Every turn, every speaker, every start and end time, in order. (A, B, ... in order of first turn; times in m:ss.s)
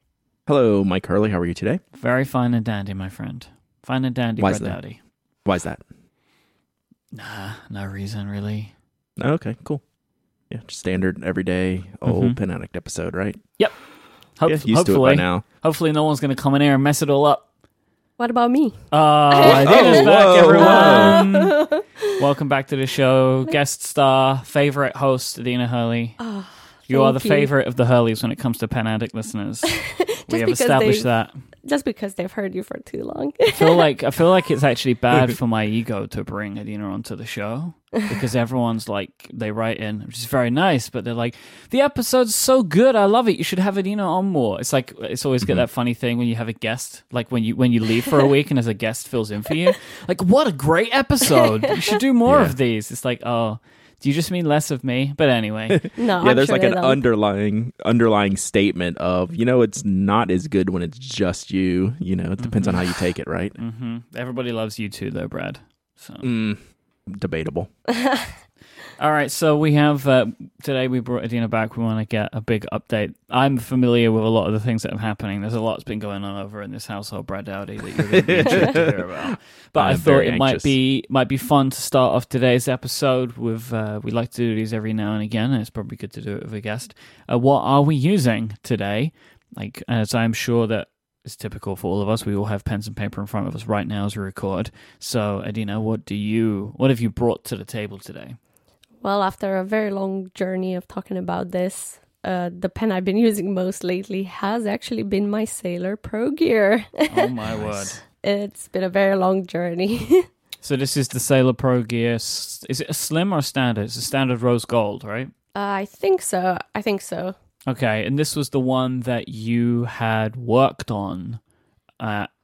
0:00.4-0:01.8 A
0:01.9-0:05.0 B
0:04.4-0:04.8 A
0:05.4-0:05.8 A
0:07.1-0:08.7 B
0:09.2-0:09.8 A
0:10.5-0:13.4 A
0:12.0-0:12.4 B
0:14.4-0:17.4 B
0:14.4-0:15.4 A
0:18.2-0:22.1 C
0:18.9-0:26.2 B
0:19.4-0:21.2 A
0:26.2-0:27.5 C
0:26.9-0:31.4 B
0:29.7-0:31.1 C
0:31.6-0:33.8 C
0:33.5-0:55.9 B
0:52.3-0:52.5 A
0:55.7-1:03.6 A
0:56.0-0:57.0 C
1:02.4-1:02.9 B
1:03.6-1:06.3 B
1:06.2-1:07.7 A
1:07.9-1:08.4 C
1:09.0-1:38.4 B
1:18.0-1:20.7 A
1:39.0-1:50.3 C
1:47.1-1:48.0 B
1:50.6-1:55.3 B
1:55.5-1:57.4 C
1:57.7-2:01.4 B
2:02.0-2:02.3 B